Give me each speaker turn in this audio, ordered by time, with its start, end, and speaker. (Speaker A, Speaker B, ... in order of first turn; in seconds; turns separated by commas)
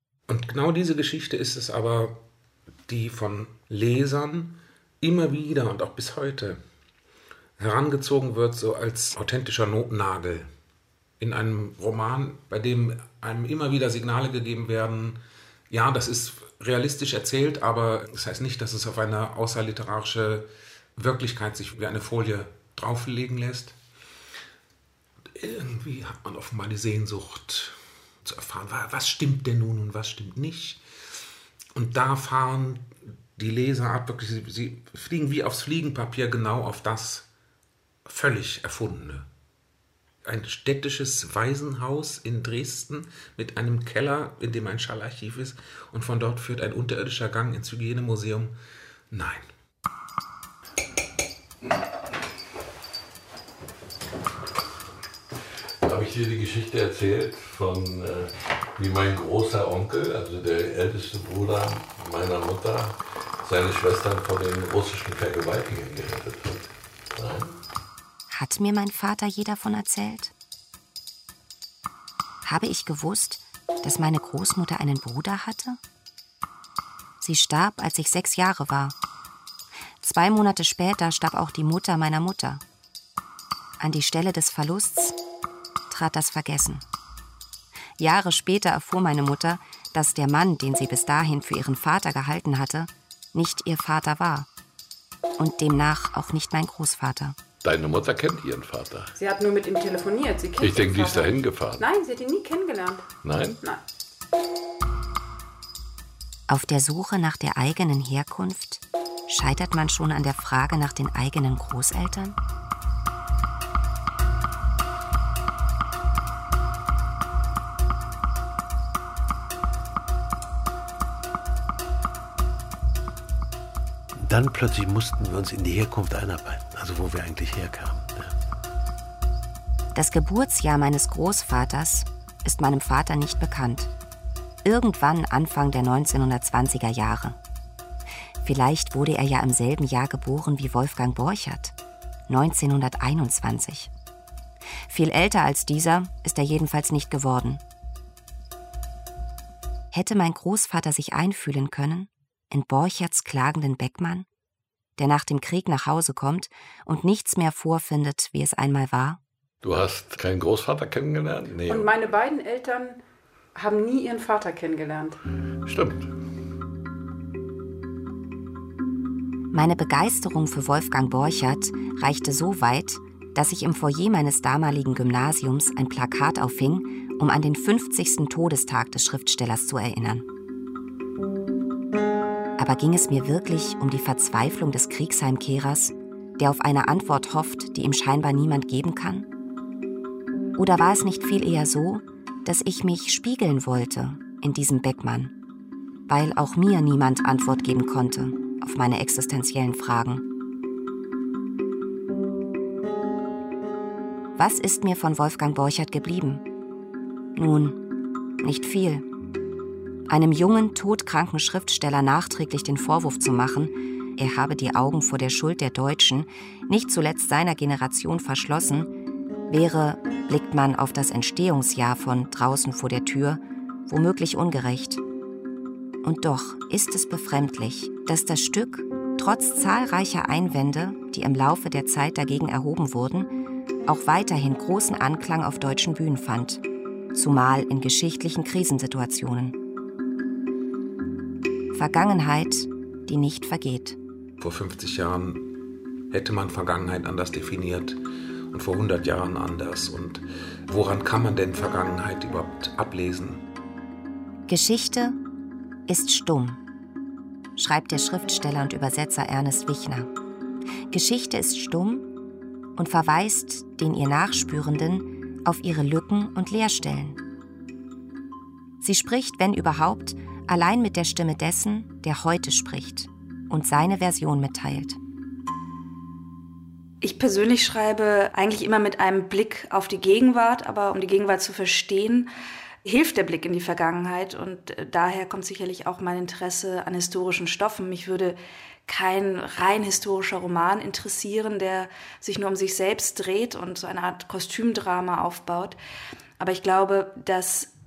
Speaker A: 0.3-2.2, Speaker A: 2.9-6.6, Speaker A: 7.6-10.5, Speaker A: 11.2-23.7, Speaker A: 25.3-30.8, Speaker A: 31.7-37.3, Speaker A: 38.0-39.3, Speaker A: 40.2-48.5, Speaker A: 49.1-49.5, Speaker B: 55.8-67.5, Speaker C: 68.3-70.3, Speaker C: 72.4-75.8, Speaker C: 77.2-78.9, Speaker C: 80.0-82.6, Speaker C: 83.8-85.1, Speaker C: 85.9-86.8, Speaker C: 88.0-94.5, Speaker C: 95.4-97.3, Speaker B: 97.6-99.1, Speaker D: 99.1-103.0, Speaker B: 100.6-101.8, Speaker B: 103.2-103.6, Speaker C: 106.5-112.3, Speaker E: 124.2-128.3, Speaker C: 129.9-133.9, Speaker C: 134.6-137.4, Speaker C: 138.4-141.7, Speaker C: 142.3-143.9, Speaker C: 144.9-147.6, Speaker C: 149.9-154.2, Speaker C: 155.0-159.2, Speaker B: 159.6-161.9, Speaker D: 161.7-163.0, Speaker D: 163.5-165.2, Speaker B: 165.6-166.1, Speaker C: 169.5-180.2, Speaker C: 182.6-189.3, Speaker C: 190.6-195.3, Speaker C: 196.1-200.2, Speaker C: 204.4-206.4, Speaker C: 207.3-207.8, Speaker C: 208.4-209.0, Speaker C: 210.1-218.9, Speaker C: 219.5-225.0, Speaker C: 226.0-233.3, Speaker C: 233.8-236.6, Speaker C: 237.1-239.6, Speaker C: 241.7-244.0, Speaker A: 244.4-245.6, Speaker A: 246.1-248.0, Speaker A: 248.5-253.4, Speaker C: 254.5-255.2, Speaker C: 255.9-256.6, Speaker C: 257.6-260.1, Speaker C: 260.9-262.1, Speaker C: 262.8-267.2, Speaker C: 268.8-275.0, Speaker F: 277.0-282.3, Speaker F: 282.8-295.8, Speaker F: 296.4-297.7